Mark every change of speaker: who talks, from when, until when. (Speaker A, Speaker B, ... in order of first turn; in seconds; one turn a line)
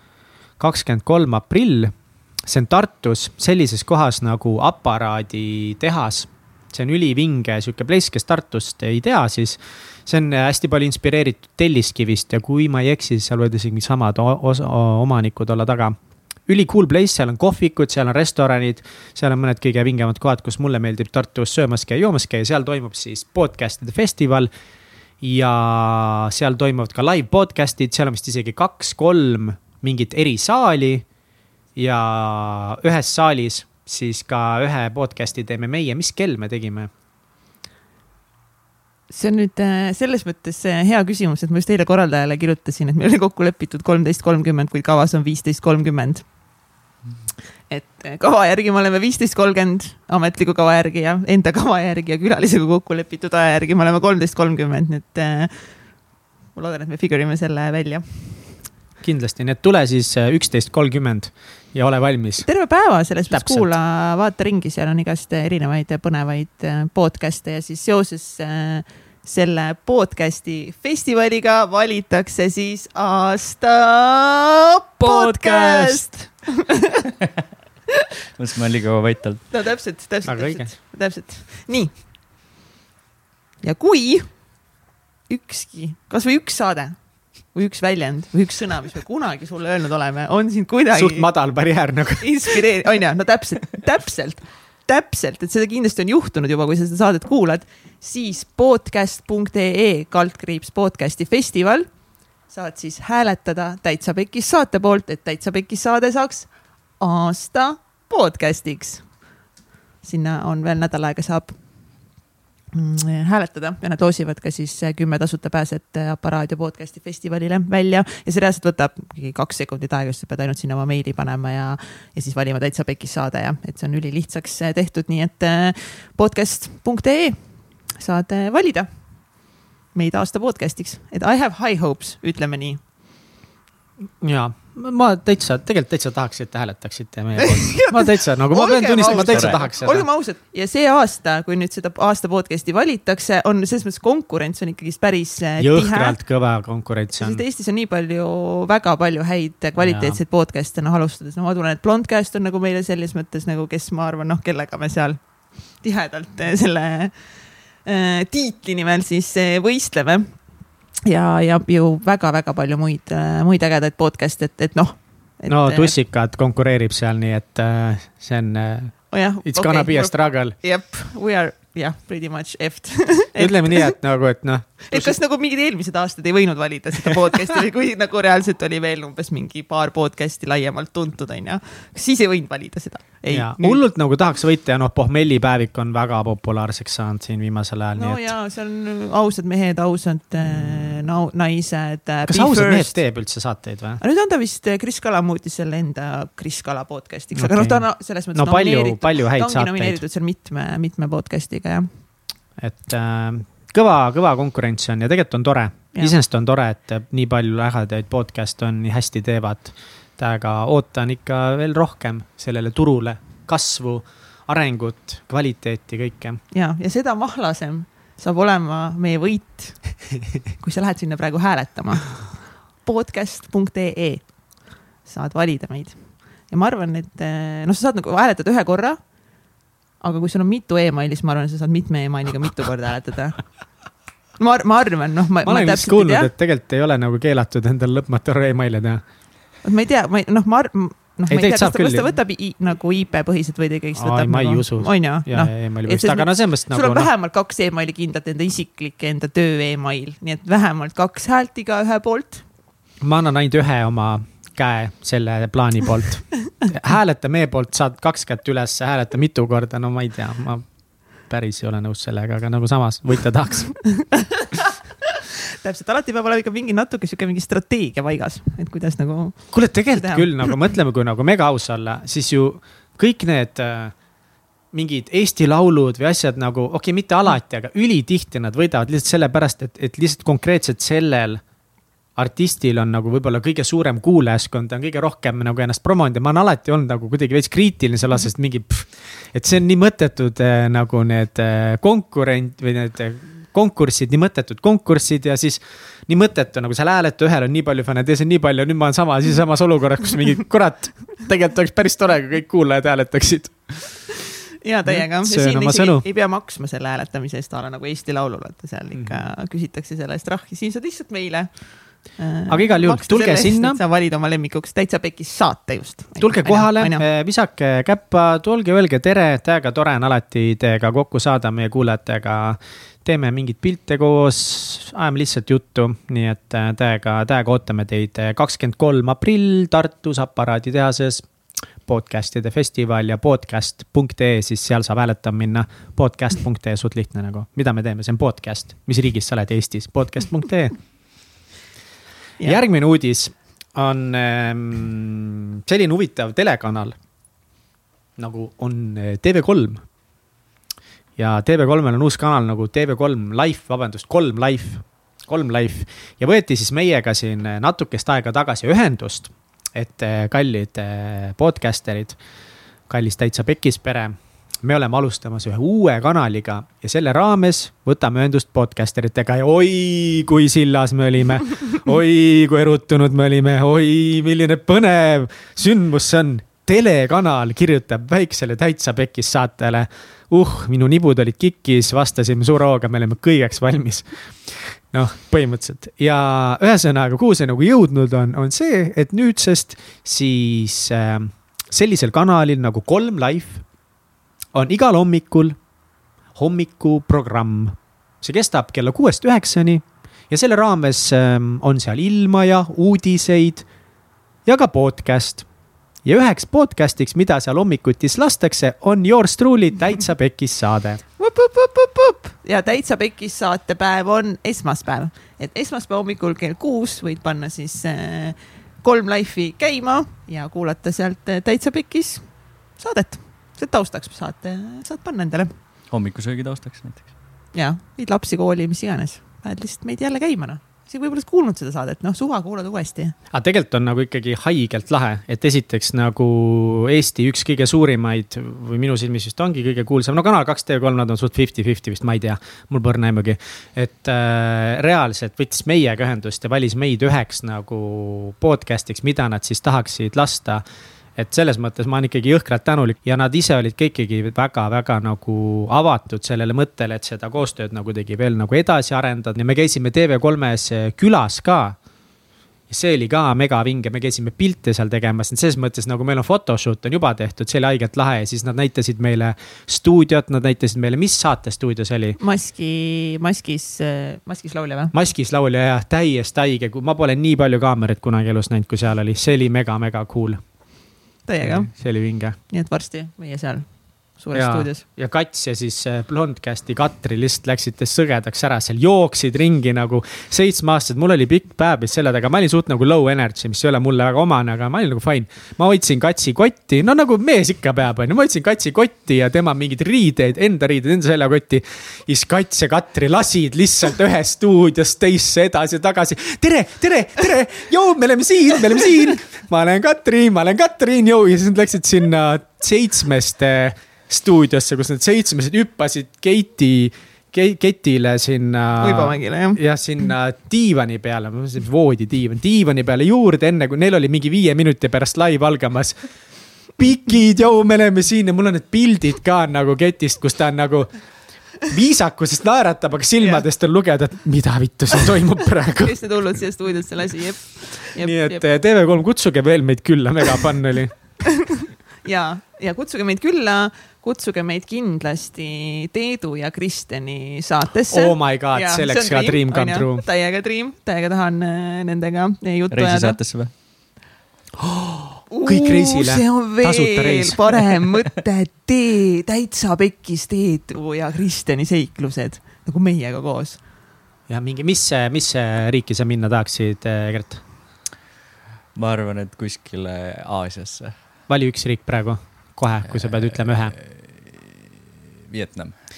Speaker A: 0.6-15.9
Speaker A: 16.5-24.5
Speaker A: 25.2-31.1
Speaker A: 31.8-36.9
Speaker B: 39.1-46.3
Speaker B: 47.7-55.9
Speaker B: 56.5-58.6
Speaker A: 59.0-62.5
Speaker B: 62.4-77.0
Speaker A: 63.3-63.7
Speaker C: 75.4-76.0
Speaker C: 78.3-79.5
Speaker B: 79.5-82.0
Speaker A: 80.2-80.7
Speaker B: 83.6-84.7
Speaker B: 85.3-91.3
Speaker A: 90.9-92.7
Speaker B: 92.2-109.2
Speaker B: 110.0-112.0
Speaker B: 112.7-128.9
Speaker B: 129.4-132.8
Speaker A: 134.2-140.1
Speaker B: 137.4-146.2
Speaker C: 139.1-139.6
Speaker A: 145.6-147.4
Speaker B: 147.2-165.9
Speaker A: 149.8-150.2
Speaker A: 165.5-170.6
Speaker B: 169.1-173.9
Speaker A: 173.3-175.2
Speaker B: 174.9-183.8
Speaker A: 183.3-188.3
Speaker B: 187.9-193.0
Speaker A: 192.3-194.0
Speaker B: 194.0-201.9
Speaker A: 197.3-200.0
Speaker A: 202.6-216.4
Speaker B: 216.5-229.5
Speaker B: 230.0-233.7
Speaker B: 234.4-236.3
Speaker A: 235.4-239.0
Speaker B: 239.6-252.4
Speaker A: 241.3-242.1
Speaker A: 243.9-247.1
Speaker A: 253.0-264.1
Speaker B: 263.9-264.5
Speaker B: 265.6-270.6
Speaker A: 269.5-274.0
Speaker A: 274.7-281.4
Speaker A: 282.1-304.2
Speaker B: 304.6-317.0
Speaker A: 304.8-306.0
Speaker A: 308.9-309.3
Speaker A: 312.5-313.8
Speaker A: 316.2-340.9
Speaker A: 342.4-347.0
Speaker A: 348.2-349.9
Speaker A: 351.2-362.2
Speaker A: 362.9-393.7
Speaker A: 394.5-395.6
Speaker A: 396.3-403.7
Speaker A: 404.4-405.5
Speaker A: 406.0-411.0
Speaker B: 411.2-425.5
Speaker C: 425.9-427.1
Speaker B: 427.5-433.1
Speaker A: 433.3-450.6
Speaker A: 451.1-461.8
Speaker A: 462.7-472.2
Speaker B: 472.2-474.9
Speaker A: 474.9-480.5
Speaker B: 481.2-484.8
Speaker A: 481.4-482.4
Speaker A: 484.3-536.4
Speaker B: 518.8-519.6
Speaker B: 533.2-533.4
Speaker B: 535.8-538.4
Speaker A: 537.9-541.2
Speaker B: 542.0-553.2
Speaker A: 547.9-550.1
Speaker C: 552.7-553.5
Speaker A: 554.6-557.9
Speaker B: 555.3-563.6
Speaker A: 564.3-567.4
Speaker C: 568.7-571.0
Speaker A: 571.3-573.7
Speaker C: 572.9-574.5
Speaker C: 575.3-575.8